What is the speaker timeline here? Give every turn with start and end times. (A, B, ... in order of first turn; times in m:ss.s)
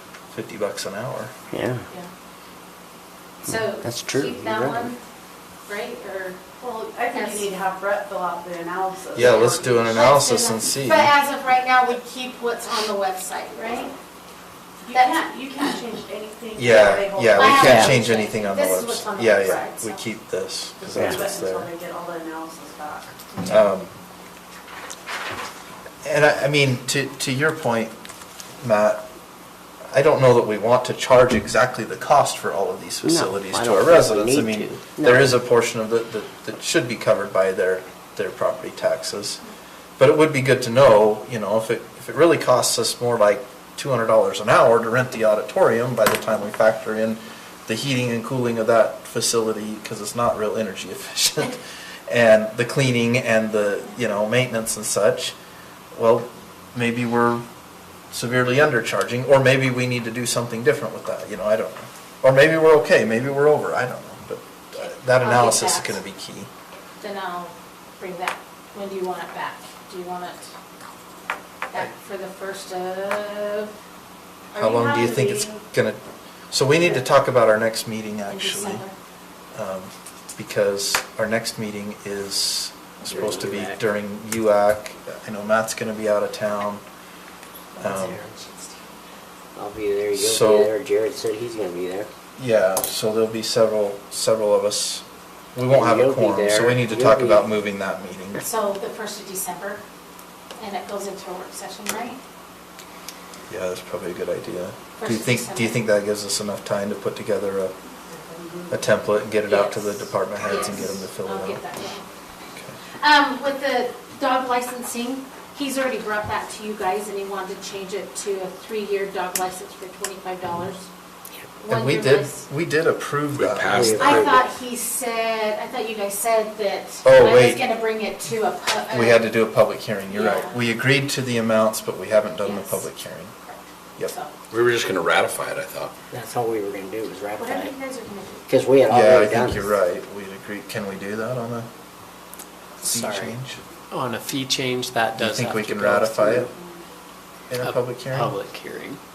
0:00.3-0:01.3 A
0:01.5-0:01.8 B
0:03.4-0:05.0 C
0:03.5-0:04.9 B
0:05.6-0:06.4 C
0:06.6-0:10.0 D
0:07.1-0:07.5 C
0:09.1-0:11.1 A
0:09.9-0:13.9 C
0:14.8-0:17.9 D
0:14.9-0:15.2 C
0:16.5-0:21.7 A
0:17.3-0:20.0 C
0:17.5-0:17.9 B
0:20.8-0:23.3 D
0:20.9-0:21.2 B
0:23.3-0:23.6 C
0:23.4-0:23.9 A
0:26.0-0:27.9 A
0:28.6-0:29.0 A
0:29.9-0:39.4 A
0:33.0-0:35.3 B
0:40.0-0:55.3 A
0:55.9-0:57.4 A
0:58.1-1:06.5 A
1:05.1-1:06.0 C
1:07.0-1:10.5 C
1:11.7-1:13.7 C
1:14.5-1:15.6 D
1:14.5-1:16.0 A
1:16.5-1:18.8 A
1:18.3-1:18.9 C
1:19.5-1:26.8 A
1:23.0-1:23.8 B
1:27.7-1:28.9 C
1:27.8-1:28.2 A
1:29.5-1:32.1 B
1:30.1-1:30.7 A
1:32.4-1:38.4 A
1:35.7-1:37.4 B
1:38.4-1:39.8 C
1:40.6-1:42.2 C
1:43.5-1:47.7 A
1:45.0-1:45.8 C
1:48.1-1:48.7 D
1:48.7-1:51.6 A
1:49.4-1:52.1 C
1:53.0-2:00.9 C
2:01.6-2:02.4 C
2:01.7-2:04.1 A
2:03.4-2:04.3 E
2:03.7-2:04.4 B
2:04.0-2:09.3 C
2:07.0-2:07.6 A
2:08.9-2:13.3 A
2:10.1-2:10.6 C
2:12.4-2:12.9 C
2:13.4-2:14.3 C
2:14.5-2:15.9 E
2:16.1-2:17.8 B
2:17.4-2:18.4 C
2:18.5-2:19.7 B
2:18.9-2:21.7 A
2:22.8-2:23.6 A
2:22.9-2:23.3 B
2:23.9-2:26.4 F
2:25.2-2:26.5 A
2:26.5-2:26.8 D
2:27.5-2:28.4 A
2:27.6-2:29.0 F